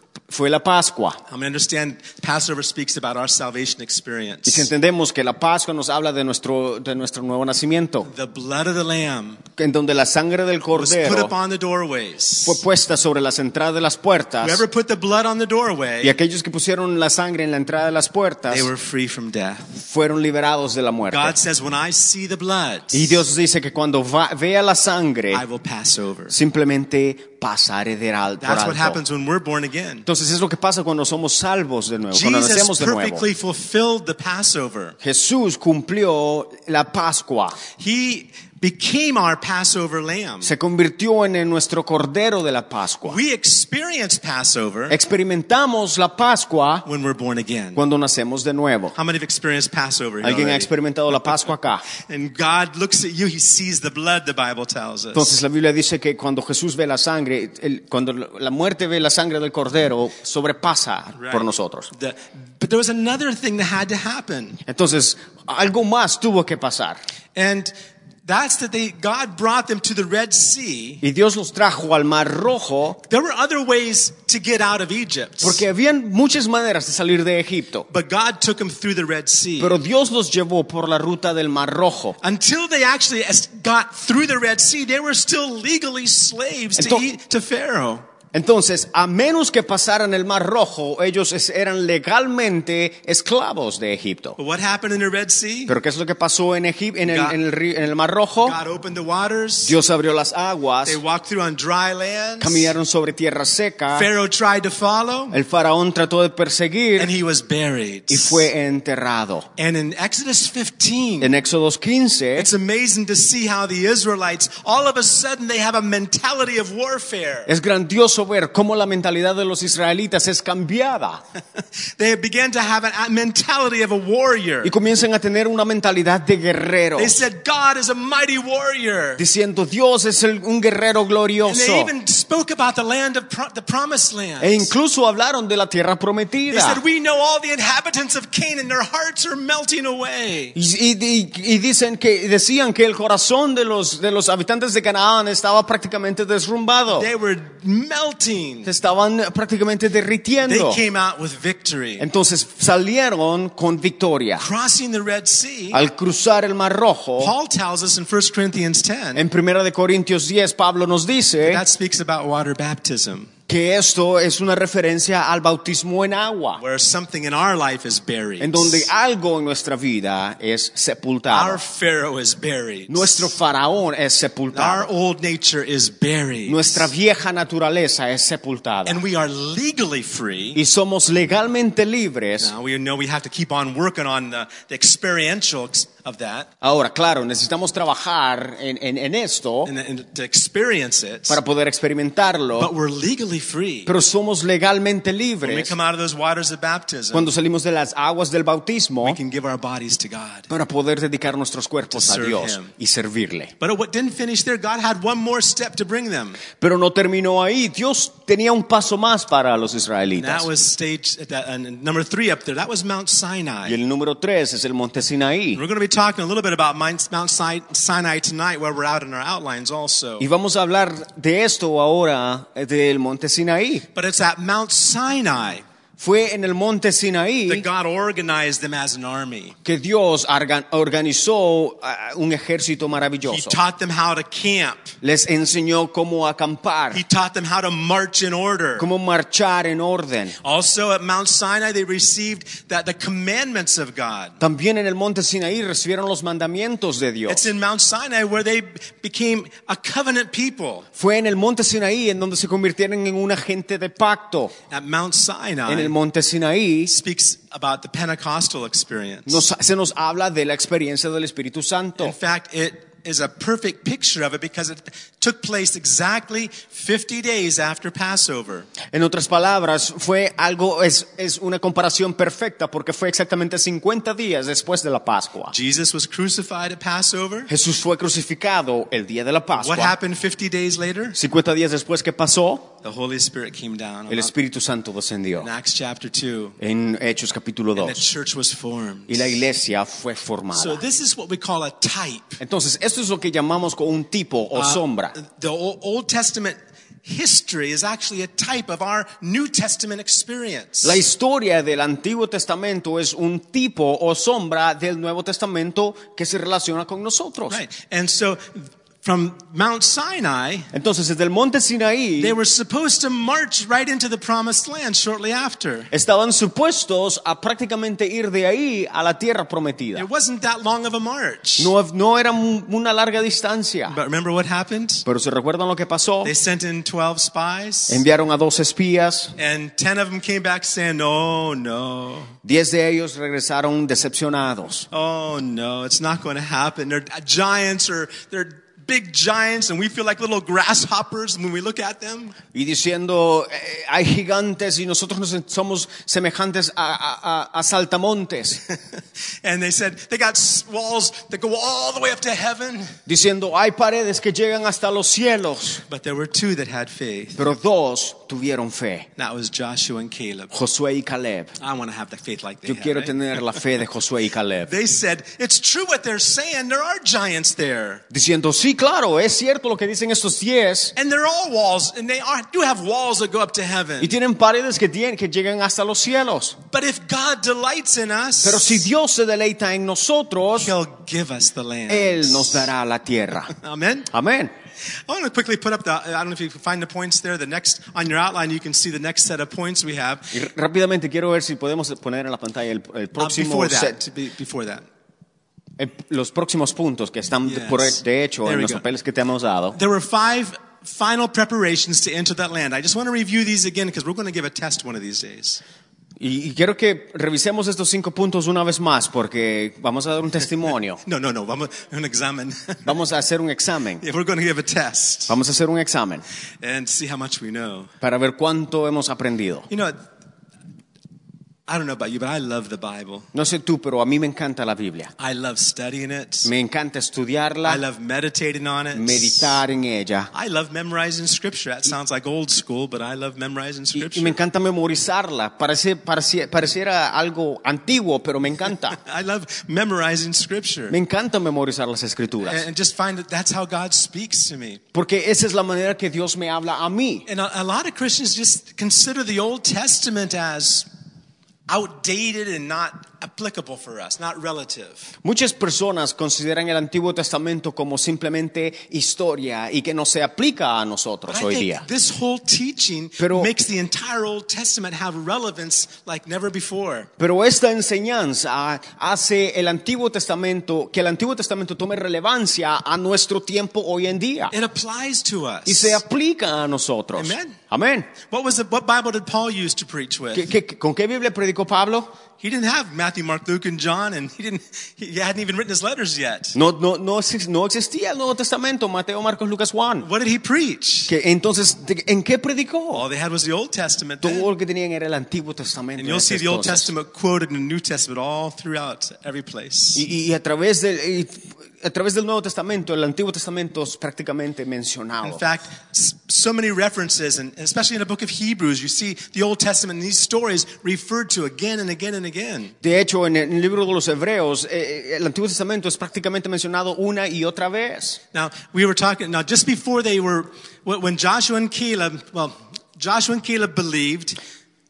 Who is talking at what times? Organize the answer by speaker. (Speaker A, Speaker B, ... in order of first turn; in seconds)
Speaker A: 0.3-1.2, 4.5-8.1, 9.6-11.3, 12.4-14.6, 16.0-18.7, 19.8-21.4, 22.9-25.4, 26.3-29.0, 30.1-33.2, 35.0-37.6, 40.4-43.2, 44.9-46.9, 47.7-48.9, 50.2-51.8, 55.1-61.9, 64.7-67.0, 71.0-73.0, 75.4-77.9, 79.6-82.2, 86.8-87.1, 88.3-94.4, 95.7-98.6, 99.6-101.0, 102.4-104.1, 105.3-107.1, 108.1-109.5, 111.2-112.5, 117.5-121.2, 124.6-127.2, 129.2-131.9, 134.4-136.8, 140.5-147.1, 148.6-150.8, 152.0-154.4, 155.7-157.3, 159.2-161.6, 163.5-166.6, 168.4-171.6, 172.9-174.9, 176.5-179.0, 180.5-182.5, 186.6-189.7, 191.3-192.7, 193.8-195.7, 197.1-199.2, 200.5-203.5, 206.6-210.5, 213.7-215.6, 220.2-223.8, 226.0-227.7, 229.6-233.6, 235.0-237.0, 238.8-240.4, 244.4-247.5, 250.9-254.5, 255.7-256.9, 259.3-262.1, 268.9-275.5, 277.5-279.9, 281.1-282.7, 284.1-285.5, 286.6-288.1, 289.1-290.8, 292.4-295.1, 300.8-307.6, 310.7-312.4, 315.9-320.1, 321.6-324.0, 325.1-326.3, 327.9-329.3, 332.4-334.9, 342.5-348.6, 353.1-355.8, 357.4-359.1, 360.5-361.5, 362.6-364.7, 368.1-370.9, 374.0-376.6, 378.4-380.7, 381.9-383.5, 384.1-384.5, 390.3-394.0, 395.8-399.8, 406.2-411.0, 412.8-414.0, 415.3-416.2, 418.0-419.7, 423.3-425.1, 426.4-427.8, 428.9-430.3, 433.9-439.0, 440.9-442.6, 444.9-447.2, 455.2-461.8, 463.2-463.5, 467.2-474.5, 475.6-478.1, 480.3-482.1, 486.5-490.1, 491.1-493.0, 494.2-496.9, 499.9-505.4, 512.8-518.2
Speaker B: 1.3-4.7, 8.0-9.4, 10.7-12.6, 14.4-16.1, 18.5-19.8, 21.1-23.2, 25.3-26.3, 28.4-30.1, 32.1-35.0, 37.8-40.5, 43.0-45.0, 46.8-47.8, 48.9-50.7, 52.1-55.4, 61.1-64.6, 67.3-67.7, 68.2-71.0, 73.0-75.6, 77.9-79.8, 82.2-88.0, 94.4-95.7, 97.0-97.4, 98.4-99.8, 100.8-102.7, 103.9-105.4, 107.0-108.5, 109.6-111.3, 112.3-117.5, 122.0-124.7, 126.9-129.2, 131.4-134.7, 136.5-140.6, 146.9-148.7, 150.4-152.1, 154.4-155.8, 157.2-159.2, 161.4-163.3, 166.6-168.9, 171.3-173.3, 174.5-176.9, 178.8-180.6, 182.4-186.5, 189.6-191.4, 192.6-193.9, 195.4-197.3, 199.0-200.5, 201.9-202.7, 203.6-206.4, 210.2-213.8, 215.5-220.3, 223.9-225.6, 227.5-229.6, 233.2-234.9, 236.9-238.9, 240.4-244.4, 247.2-250.9, 254.7-255.9, 256.9-259.4, 262.0-268.7, 275.5-277.5, 279.6-281.2, 282.8-284.3, 285.4-286.6, 287.8-289.3, 290.5-292.4, 294.5-301.0, 307.5-310.7, 312.2-315.9, 319.9-321.7, 323.9-325.0, 326.2-328.0, 329.4-332.3, 334.9-342.4, 349.4-353.0, 355.9-357.5, 359.2-360.5, 361.6-363.6, 364.6-368.0, 370.9-374.1, 376.7-378.9, 380.6-382.7, 383.6-384.1, 385.1-390.4, 393.2-394.9, 397.4-398.8, 399.7-405.6, 411.0-412.9, 414.0-415.4, 416.6-417.9, 419.7-420.0, 421.7-423.3, 425.2-426.5, 427.6-429.6, 430.3-434.4, 438.9-440.9, 442.4-444.8, 447.3-450.9, 451.7-455.1, 461.3-467.1, 474.5-476.0, 477.1-477.6, 478.3-480.5, 482.4-486.6, 490.0-491.1, 492.9-494.5, 496.0-500.0, 505.2-512.8, 518.3-524.4